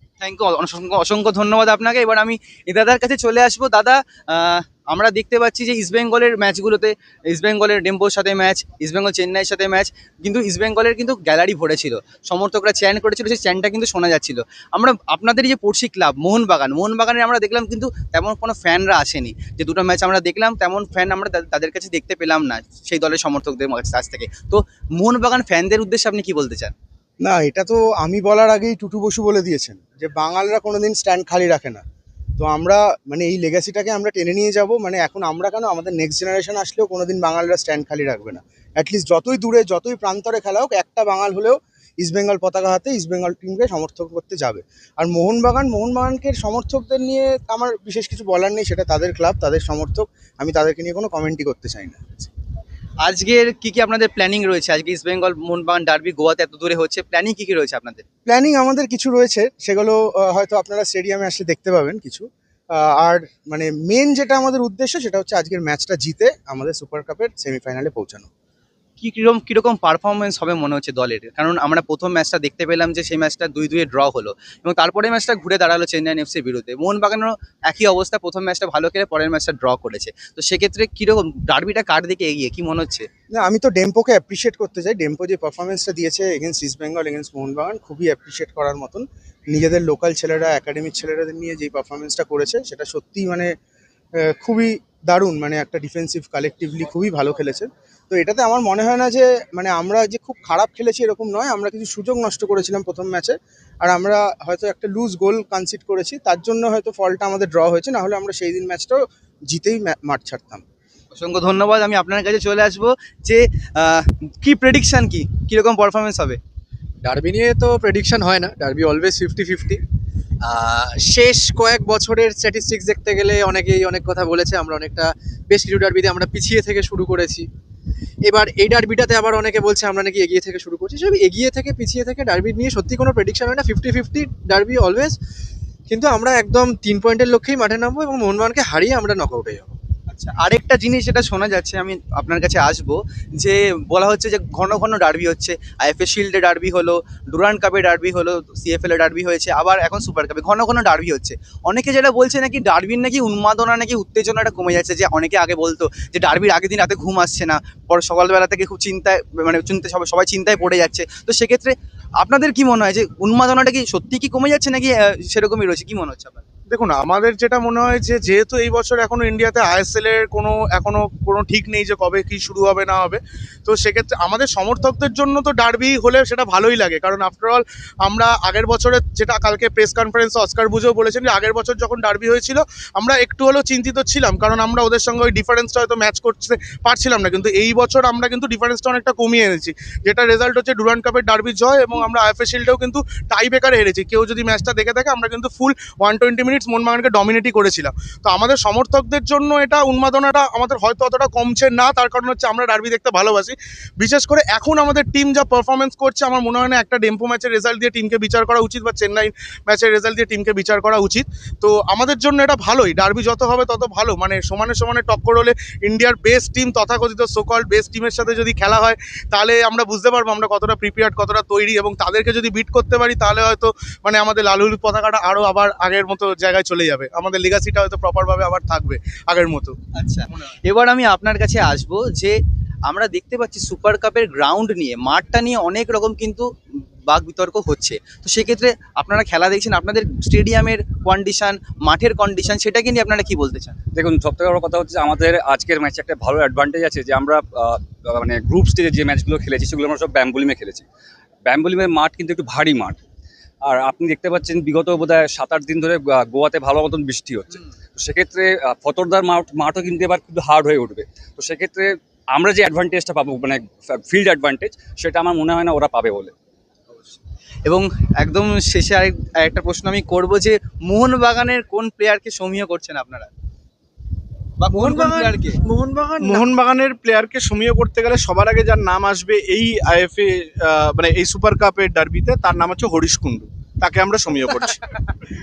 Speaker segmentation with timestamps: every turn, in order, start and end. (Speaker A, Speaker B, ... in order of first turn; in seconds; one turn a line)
Speaker A: 0.2-26.7
Speaker B: 27.2-31.8
Speaker B: 32.4-52.3
Speaker A: 53.0-58.0
Speaker B: 58.3-68.3
Speaker A: 69.0-83.1
Speaker B: 83.3-93.5
Speaker B: 94.2-110.6
Speaker A: 111.1-116.4
Speaker C: 117.0-119.8
Speaker C: 120.4-127.5
Speaker C: 128.3-135.2
Speaker C: 135.9-139.8
Speaker A: 140.1-166.4
Speaker D: 166.7-229.8
Speaker A: 230.0-232.4
Speaker A: 232.9-236.5
Speaker A: 237.1-243.8
Speaker E: 243.9-250.8
Speaker E: 251.4-253.0
Speaker E: 253.7-266.3
Speaker A: 267.7-273.3
Speaker A: 274.6-275.6
Speaker F: 276.2-284.8